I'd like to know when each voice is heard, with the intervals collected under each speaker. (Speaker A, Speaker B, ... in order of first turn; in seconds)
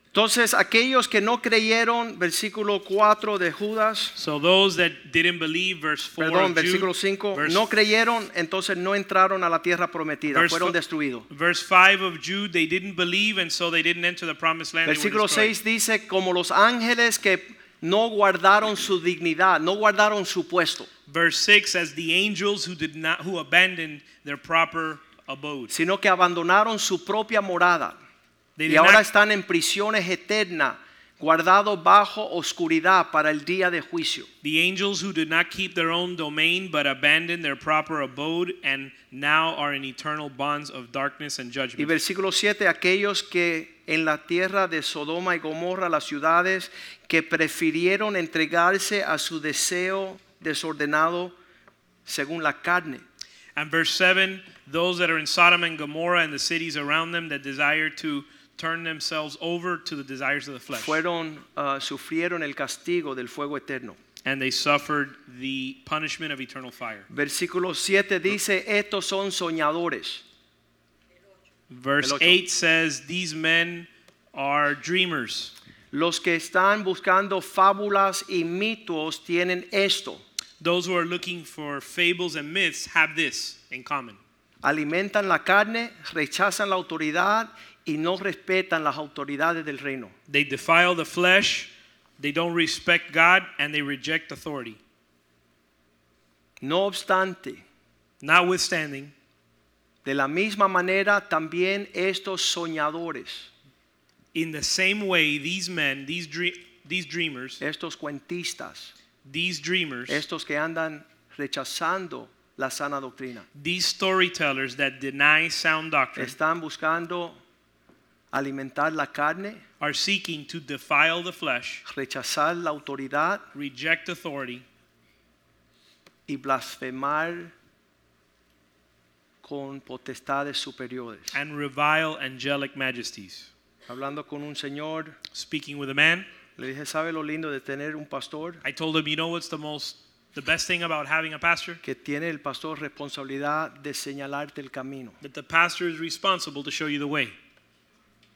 Speaker A: 0.1-4.2, 6.2-11.3, 14.8-20.9, 25.7-28.0, 28.7-34.3, 41.8-51.3, 52.0-53.0, 60.7-64.0, 67.1-70.2, 72.0-72.4, 75.9-80.2, 84.6-90.1, 96.6-97.6, 100.0-103.5, 107.6-108.9, 110.1-113.5, 116.2-117.4, 118.3-119.6, 121.8-123.5, 126.3-127.5, 129.4-131.3, 133.9-135.2, 136.6-138.6, 141.8-145.2
Speaker B: 4.2-7.6, 10.3-10.8, 11.3-15.6, 21.1-25.7, 28.6-29.0, 34.4-42.0, 53.5-61.0, 64.2-67.1, 71.7-75.5, 80.6-84.2, 90.3-94.8, 98.2-99.1, 104.3-107.6, 109.2-110.2, 113.5-116.3, 119.8-121.8, 123.5-124.6, 131.3-133.5, 135.3-136.3, 138.6-141.8, 145.2-147.3